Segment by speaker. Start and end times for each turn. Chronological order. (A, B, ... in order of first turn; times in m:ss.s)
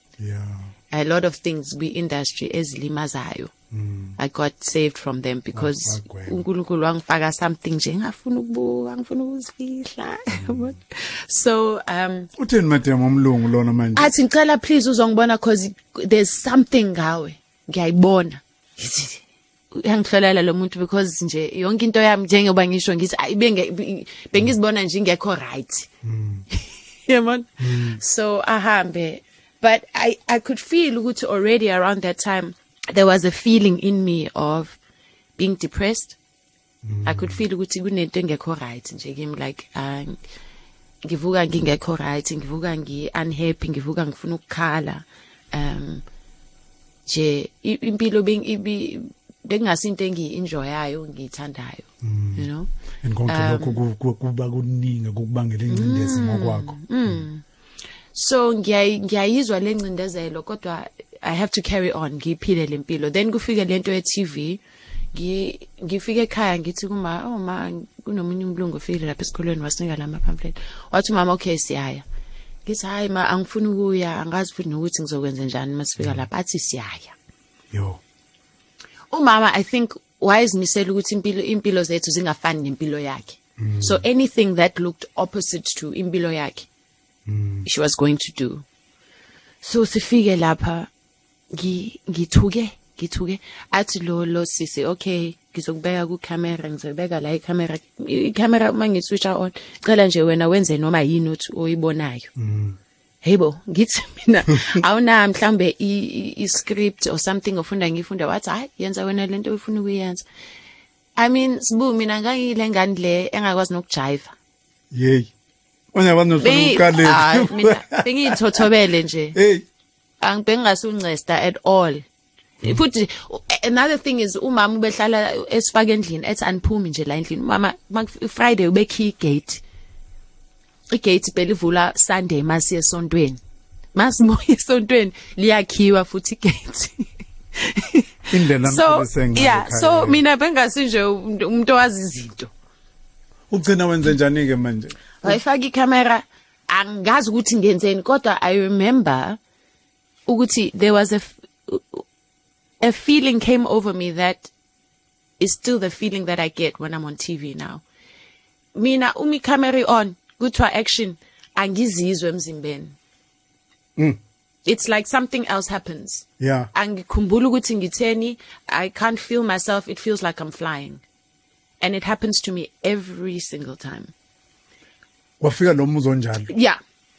0:00.2-0:00.7 A
0:00.9-0:03.5 B
0:03.7-0:04.2 A
0:04.2-0:12.3 B
0:05.5-0:06.4 A
0:10.3-0:10.7 A
0:12.4-0:14.1 A
0:14.0-0:25.9 B
0:26.0-0:26.4 A
0:26.5-0:34.8 B
0:27.6-0:28.0 A
0:35.4-0:36.2 B
0:36.8-0:37.4 A
0:37.0-0:40.2 B
0:41.0-0:46.0 B
0:47.0-0:52.7 B
0:52.0-0:52.4 A
0:53.0-0:57.2 A
0:53.3-0:53.8 B
0:55.7-0:57.4 B
0:58.1-1:04.6 B
1:05.1-1:12.0 B
1:12.6-1:17.1 B
1:17.7-1:18.0 A
1:19.1-1:26.7 B
1:23.6-1:24.0 A
1:27.2-1:27.6 A
1:27.6-1:28.6 B
1:29.6-1:30.9 B
1:31.5-1:42.3 B
1:42.4-1:42.8 A
1:43.2-1:50.2 B
1:51.2-1:54.3 B
1:54.9-1:55.3 A
1:55.9-1:58.6 A
1:56.4-1:59.4 B
1:59.3-1:59.6 A
2:00.2-2:02.0 B
2:02.6-2:09.6 B
2:10.9-2:13.4 B
2:13.9-2:22.5 B
2:18.3-2:20.2 A
2:23.5-2:25.4 A
2:25.2-2:29.4 B
2:30.3-2:32.0 B
2:32.8-2:34.5 B
2:35.4-2:37.8 B
2:38.8-2:43.0 B
2:44.6-2:51.0 B
2:46.4-2:46.7 A
2:51.8-2:54.1 B
2:55.4-2:56.5 A
2:56.5-2:56.8 B